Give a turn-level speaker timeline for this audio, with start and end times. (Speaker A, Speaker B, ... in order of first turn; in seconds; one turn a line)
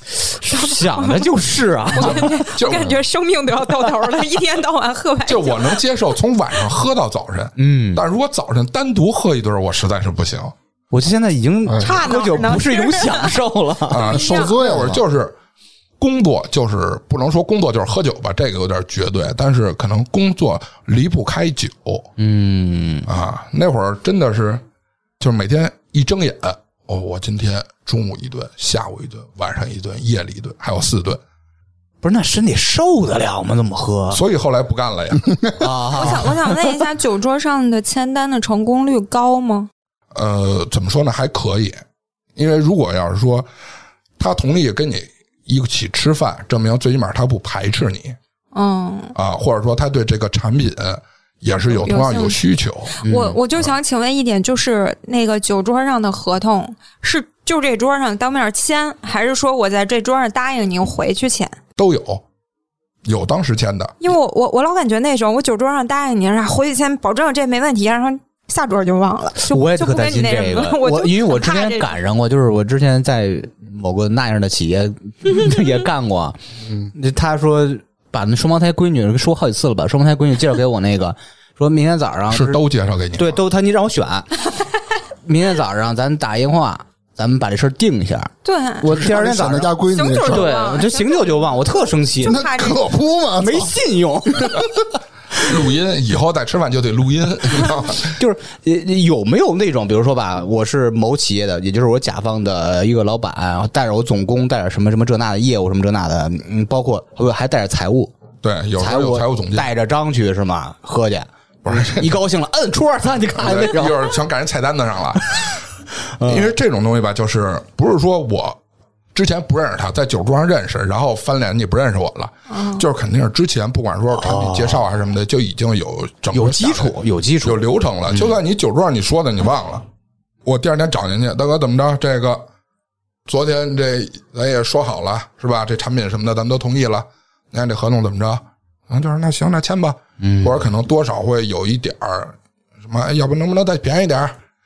Speaker A: 0.2-2.4
Speaker B: 0.6-1.3
Speaker B: 1.9-5.8
Speaker C: 2.0-3.0
Speaker C: 5.3-10.5
Speaker A: 7.6-8.0
Speaker A: 10.9-14.1
Speaker D: 11.7-11.9
Speaker B: 11.8-13.4
Speaker C: 13.9-15.4
Speaker B: 14.0-14.6
Speaker D: 14.1-15.0
Speaker C: 16.0-22.1
Speaker A: 22.2-23.1
Speaker C: 23.1-24.6
Speaker C: 25.2-31.2
Speaker A: 32.0-34.2
Speaker C: 34.1-35.5
Speaker A: 35.6-36.3
Speaker B: 35.9-39.7
Speaker C: 40.1-41.8
Speaker C: 42.4-43.5
Speaker C: 44.2-48.2
Speaker B: 48.5-49.1
Speaker C: 49.1-53.0
Speaker B: 51.7-52.4
Speaker B: 53.0-61.6
Speaker A: 53.0-53.4
Speaker C: 61.8-62.2
Speaker C: 63.0-64.0
Speaker B: 64.0-72.0
Speaker A: 69.4-76.4
Speaker A: 76.9-82.6
Speaker C: 82.3-83.4
Speaker A: 83.2-84.3
Speaker A: 85.2-88.3
Speaker B: 88.4-89.0
Speaker D: 88.8-90.5
Speaker A: 88.8-89.7
Speaker B: 89.9-92.8
Speaker A: 90.2-92.5
Speaker D: 92.2-93.8
Speaker A: 93.4-94.7
Speaker C: 95.4-98.2
Speaker A: 98.0-108.1
Speaker C: 108.4-109.7
Speaker A: 108.8-114.1
Speaker C: 111.7-112.1
Speaker C: 113.4-115.6
Speaker A: 116.2-116.5
Speaker C: 116.2-118.6
Speaker C: 119.1-129.8
Speaker B: 122.5-122.8
Speaker A: 124.2-124.9
Speaker A: 126.3-128.3
Speaker C: 130.4-132.5
Speaker C: 133.3-144.4
Speaker A: 140.2-140.7